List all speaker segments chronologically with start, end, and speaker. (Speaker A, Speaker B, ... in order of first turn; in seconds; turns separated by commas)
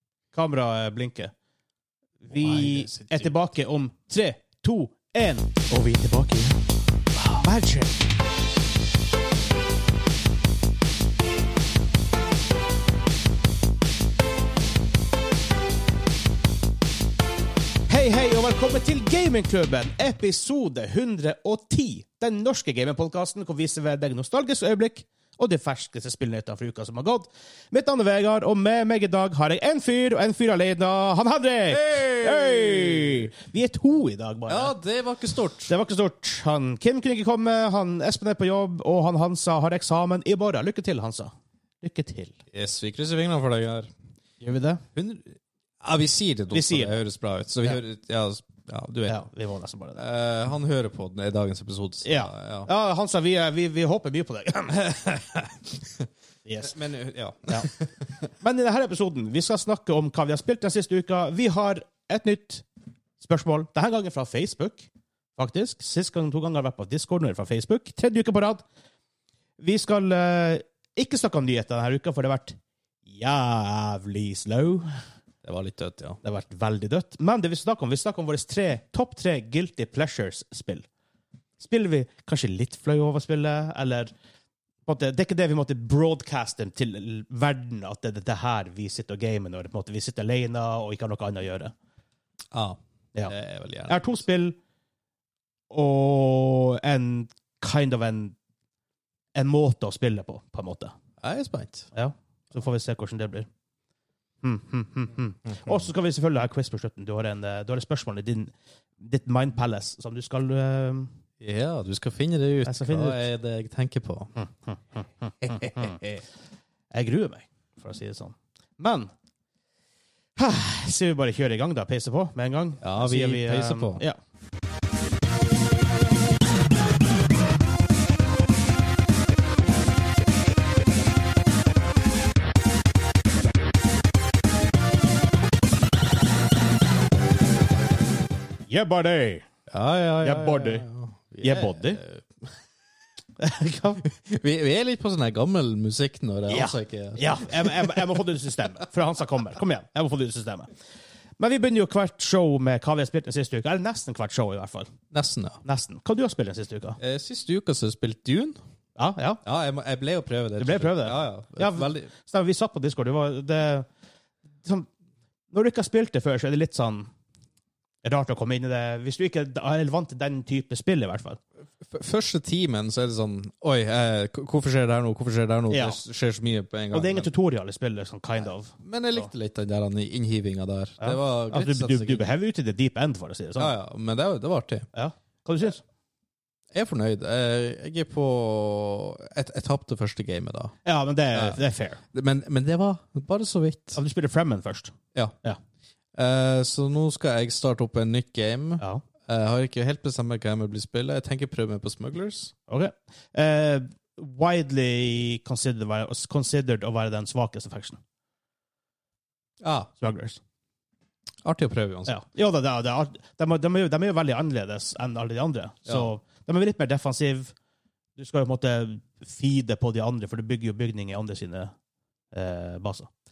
Speaker A: 0.3-1.3, Speaker A: 2.2-6.6, Speaker B: 2.3-3.4, Speaker A: 7.2-8.0, Speaker A: 17.9-34.7, Speaker B: 31.7-33.3, Speaker B: 34.5-35.7, Speaker A: 35.7-41.3, Speaker A: 41.8-42.4, Speaker B: 42.5-43.9, Speaker A: 44.4-44.8, Speaker B: 44.9-49.2, Speaker A: 46.5-47.0, Speaker A: 49.0-50.0, Speaker B: 50.0-52.7, Speaker A: 52.0-55.3, Speaker B: 55.4-56.0, Speaker A: 56.4-56.8, Speaker B: 56.6-58.3, Speaker A: 58.4-62.6, Speaker A: 63.2-68.6, Speaker A: 69.6-72.5, Speaker A: 73.1-75.0, Speaker B: 75.4-76.2, Speaker A: 76.2-80.8, Speaker A: 81.6-84.1, Speaker A: 84.8-91.7, Speaker B: 92.5-94.2, Speaker A: 93.9-94.6, Speaker A: 95.7-98.3, Speaker A: 99.3-100.9, Speaker B: 101.2-101.9, Speaker A: 101.9-103.5, Speaker A: 104.4-111.1, Speaker B: 111.4-114.3, Speaker A: 112.6-113.2, Speaker A: 114.4-116.0, Speaker B: 115.4-116.2, Speaker A: 116.9-119.1, Speaker A: 120.3-124.2, Speaker B: 122.8-124.0, Speaker A: 138.7-139.5, Speaker B: 139.7-142.6, Speaker A: 140.2-140.8, Speaker A: 141.4-142.0, Speaker A: 143.4-144.0, Speaker B: 144.0-148.1, Speaker A: 146.5-150.7, Speaker A: 151.4-154.9, Speaker B: 155.1-155.6, Speaker A: 155.6-157.0, Speaker B: 157.0-158.6, Speaker A: 158.9-159.4, Speaker B: 159.4-162.1, Speaker A: 160.6-163.9, Speaker A: 164.6-164.9, Speaker A: 165.5-167.1, Speaker A: 168.0-171.4, Speaker B: 171.8-177.3, Speaker A: 175.7-176.0, Speaker A: 176.9-179.3, Speaker B: 178.8-182.2, Speaker A: 181.0-183.7, Speaker B: 183.6-184.9, Speaker A: 184.9-185.8, Speaker B: 186.7-190.8, Speaker A: 190.8-192.0, Speaker B: 191.3-191.6, Speaker B: 192.1-194.0, Speaker A: 193.9-195.6, Speaker B: 196.1-202.5, Speaker A: 198.8-199.0, Speaker A: 202.7-208.0, Speaker B: 209.6-209.9, Speaker A: 210.0-210.4, Speaker B: 211.4-212.2, Speaker A: 212.1-217.5, Speaker A: 218.2-221.7, Speaker A: 222.3-223.1